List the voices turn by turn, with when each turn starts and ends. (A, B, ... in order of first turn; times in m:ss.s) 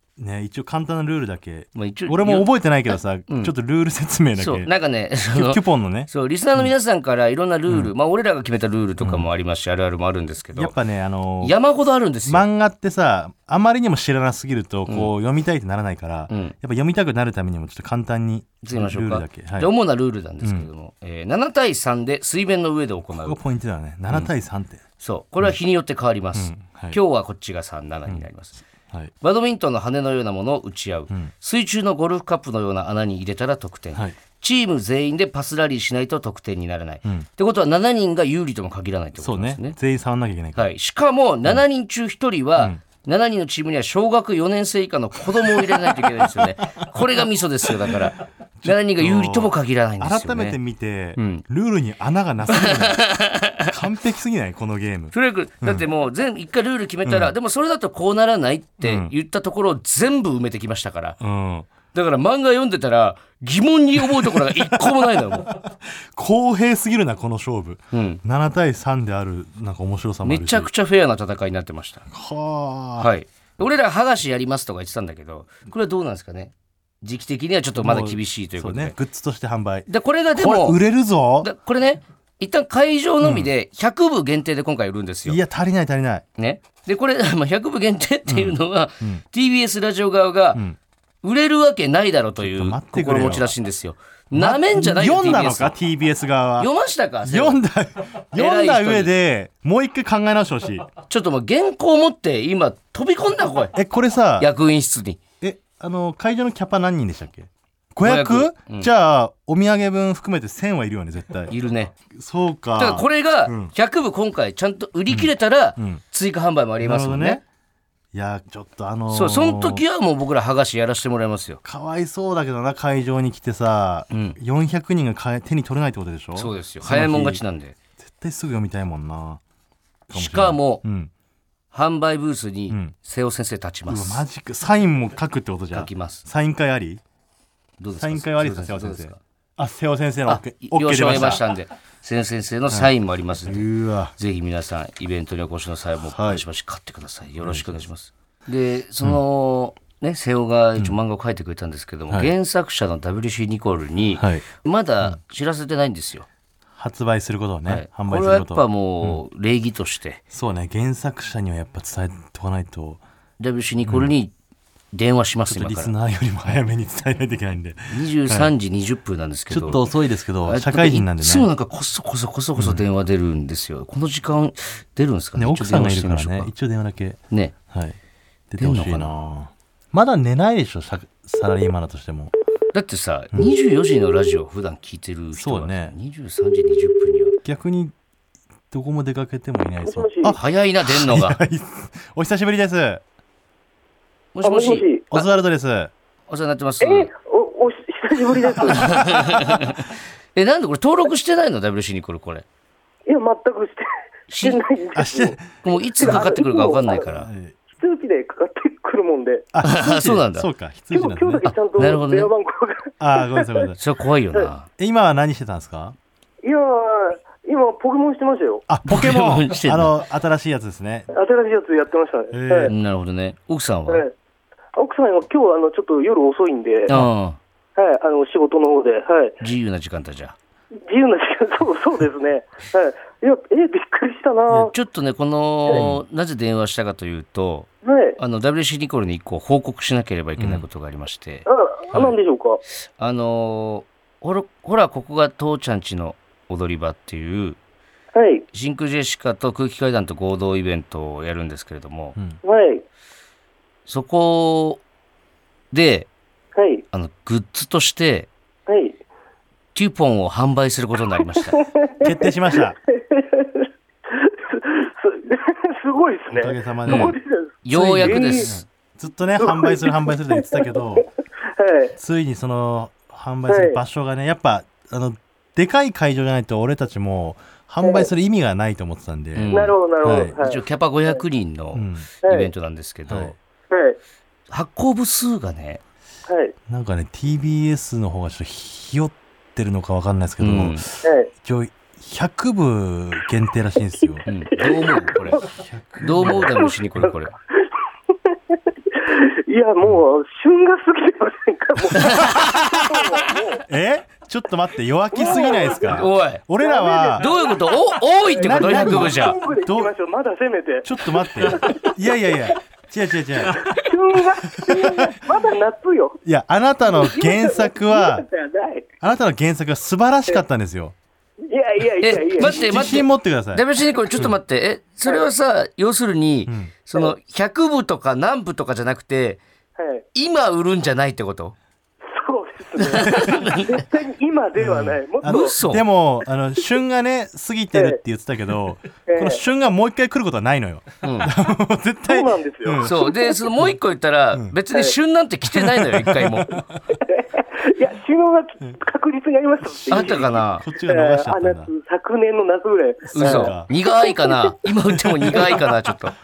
0:00.2-0:04.7 A
0:01.7-0:02.5 B
0:03.3-0:03.5 B
0:04.4-0:10.7 B
0:05.3-0:06.7 A
0:09.0-0:09.3 A
0:10.5-0:11.6 A
0:11.4-0:12.4 B
0:12.2-0:19.7 A
0:16.3-0:16.5 B
0:18.6-0:23.4 B
0:20.4-0:20.7 A
0:23.1-0:24.8 A
0:25.0-0:28.6 B
0:26.3-0:27.0 A
0:29.2-0:39.8 B
0:39.2-0:40.7 A
0:40.6-0:50.6 B
0:45.4-0:46.4 A
0:48.6-0:53.0 A
0:51.2-0:51.4 B
0:52.5-0:53.7 B
0:53.7-0:55.8 A
0:55.1-1:01.2 B
0:57.0-0:57.3 A
0:58.8-0:59.1 A
1:01.2-1:01.7 A
1:01.9-1:05.6 B
1:04.0-1:10.7 A
1:07.9-1:08.2 B
1:10.2-1:12.1 B
1:12.1-1:13.1 A
1:13.0-1:19.0 B
1:17.8-1:21.5 A
1:19.9-1:20.8 B
1:21.4-1:25.4 B
1:23.2-1:23.5 A
1:25.2-1:26.2 A
1:26.4-1:30.6 B
1:28.3-1:29.2 A
1:31.2-1:35.7 B
1:32.4-1:33.6 A
1:34.3-1:36.7 A
1:36.6-1:37.6 B
1:37.2-1:40.9 A
1:38.4-1:39.1 B
1:41.1-1:43.7 B
1:43.7-1:44.5 A
1:44.4-1:45.2 B
1:45.4-1:53.7 A
1:48.0-1:48.9 B
1:51.5-1:51.9 B
1:52.8-1:57.4 B
1:55.1-1:56.0 A
1:56.8-1:57.4 A
1:58.1-1:59.8 A
1:59.1-2:01.6 B
2:01.6-2:07.4 A
2:04.1-2:04.4 B
2:06.4-2:07.8 B
2:08.0-2:09.4 A
2:10.1-2:11.1 A
2:10.1-2:10.8 B
2:11.7-2:14.2 B
2:13.9-2:17.0 A
2:15.7-2:16.2 B
2:17.8-2:19.2 B
2:18.0-2:21.5 A
2:20.3-2:36.3 B
2:23.4-2:24.1 A
2:26.0-2:26.4 A
2:27.4-2:27.9 A
2:34.2-2:34.4 A
2:36.8-2:39.2 A
2:37.7-2:40.2 B
2:40.3-2:43.0 A
2:43.4-2:44.3 B
2:43.9-2:44.1 A
2:44.9-2:45.9 B
2:45.5-2:48.5 A
2:47.9-2:49.8 B
2:49.5-2:51.5 A
2:50.4-2:56.5 B
2:52.6-2:52.8 A
2:55.4-2:57.2 A
2:57.7-2:58.0 A
2:58.5-3:02.3 A
2:58.6-2:59.1 B
3:02.7-3:07.4 B
3:05.3-3:05.9 A
3:07.4-3:07.9 A
3:08.7-3:13.0 A
3:09.8-3:10.4 C
3:10.3-3:11.4 B
3:14.4-3:15.2 B
3:14.4-3:15.1 C
3:15.1-3:15.9 A
3:16.3-3:17.1 B
3:16.8-3:19.0 C
3:18.7-3:22.4 B
3:18.9-3:19.5 A
3:23.1-3:23.9 C
3:24.3-3:24.6 B
3:24.4-3:25.4 C
3:24.9-3:26.4 A
3:25.6-3:27.3 B
3:26.0-3:27.0 C
3:27.2-3:27.6 A
3:27.7-3:29.5 C
3:29.5-3:32.0 A
3:29.6-3:30.5 B
3:30.9-3:33.7 C
3:31.8-3:32.3 B
3:33.0-3:33.8 A
3:33.8-3:34.7 B
3:34.8-3:36.0 A
3:36.4-3:38.6 C
3:38.7-3:41.1 A
3:38.8-3:39.9 B
3:41.1-3:42.7 C
3:42.3-3:42.7 A
3:42.7-3:44.0 B
3:43.9-3:44.1 C
3:44.8-3:46.9 C
3:46.9-3:47.4 B
3:47.8-3:49.4 C
3:49.4-3:50.4 B
3:50.9-3:54.7 C
3:54.5-4:02.1 B
3:55.7-3:56.0 A
3:57.8-3:58.2 C
4:00.4-4:00.6 A
4:01.5-4:02.6 C
4:03.0-4:07.6 B
4:08.1-4:08.4 C
4:08.5-4:12.2 B
4:12.4-4:12.8 C
4:13.9-4:14.8 B
4:15.7-4:16.1 B
4:16.6-4:16.8 C
4:16.9-4:18.3 B
4:18.7-4:19.0 C
4:19.7-4:21.6 B
4:21.6-4:28.5 C
4:22.0-4:22.8 A
4:26.3-4:27.2 A
4:26.9-4:28.6 B
4:27.7-4:31.1 A
4:29.4-4:31.9 C
4:32.0-4:40.4 A
4:33.5-4:33.8 C
4:37.8-4:38.1 C
4:39.4-4:39.8 B
4:39.5-4:41.2 C
4:40.4-4:43.4 B
4:41.7-4:42.1 A
4:42.2-4:42.5 C
4:43.1-4:43.4 A
4:43.7-4:44.0 C
4:44.5-4:45.8 B
4:46.3-4:46.6 C
4:46.7-4:54.3 A
4:50.4-4:50.8 B
4:51.0-4:51.3 C
4:54.0-4:55.5 C
4:54.2-4:55.4 B
4:55.3-4:56.7 A
4:56.0-4:57.3 B
4:56.2-4:57.1 C
4:58.3-5:03.6 C
5:02.0-5:02.6 B
5:02.0-5:02.7 A
5:03.7-5:07.3 A
5:05.1-5:06.1 C
5:05.9-5:06.4 B
5:06.6-5:07.6 C
5:07.2-5:09.4 B
5:08.2-5:12.5 C
5:08.4-5:09.9 A
5:10.8-5:13.6 A
5:13.5-5:16.2 C
5:14.6-5:15.2 A
5:16.2-5:18.3 A
5:16.9-5:18.9 C
5:19.0-5:20.9 A
5:21.5-5:22.8 C
5:22.0-5:29.4 B
5:22.4-5:23.6 A
5:26.5-5:26.7 A
5:29.8-5:30.0 C
5:30.1-5:31.6 B
5:32.1-5:35.6 C
5:32.8-5:33.8 B
5:34.6-5:43.1 A
5:35.2-5:35.8 B
5:39.1-5:39.4 C
5:41.0-5:41.3 B
5:42.1-5:43.4 C
5:42.8-5:46.6 B
5:45.5-5:46.6 A
5:46.9-5:54.5 C
5:49.8-5:51.7 A
5:49.9-5:50.6 B
5:53.1-5:53.7 A
5:53.1-5:56.1 B
5:55.1-5:55.5 A
5:55.3-5:55.6 C